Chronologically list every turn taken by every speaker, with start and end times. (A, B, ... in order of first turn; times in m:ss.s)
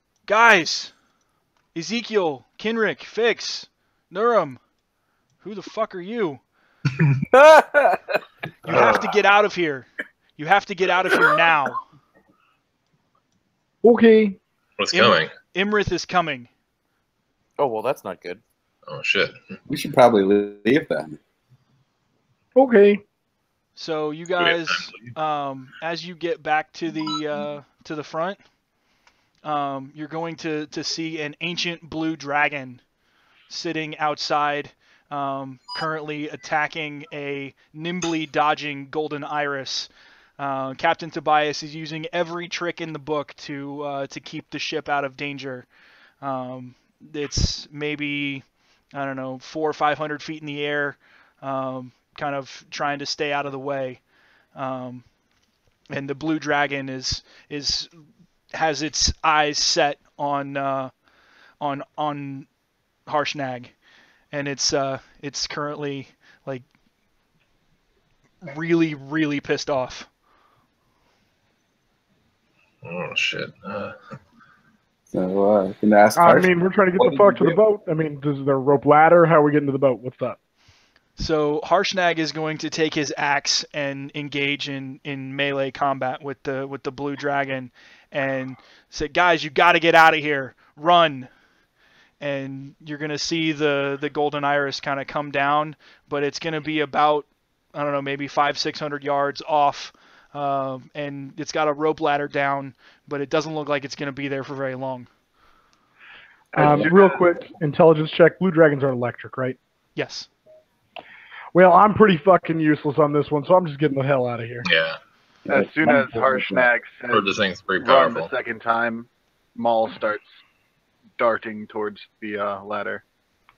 0:00.3-0:00.9 A
0:01.7-0:04.6 A
0:05.4-0:06.4 A
0:07.3-0:08.1 B
0:08.6-0:11.8 A
0:08.7-0:09.1 B
0:13.8-0:14.4 C
0:14.8-0:15.3 D
0:14.9-0:16.5 A
0:17.6-0:18.4 B
0:18.9-0:19.4 D
0:19.7-0:21.2 E
0:22.5-0:23.0 C
0:23.8-0:28.4 A
0:24.4-0:25.1 D
0:29.4-0:32.8 A
0:33.5-0:45.7 A
0:46.2-0:54.0 A
0:54.5-0:55.0 A
0:55.9-0:57.9 A
0:58.5-1:00.9 A
1:01.6-1:02.5 A
1:03.1-1:03.7 A
1:04.3-1:06.6 A
1:08.4-1:10.1 A
1:12.8-1:14.0 D
1:15.1-1:17.6 E
1:16.2-1:20.4 C
1:21.2-1:31.3 A
1:32.2-1:45.1 A
1:46.5-1:49.6 C
1:46.6-1:47.0 E
1:50.0-1:50.3 A
1:51.5-1:54.7 C
1:54.6-1:55.0 D
1:55.5-1:56.7 E
1:55.5-2:00.2 F
1:57.1-1:58.3 D
2:01.2-2:03.0 F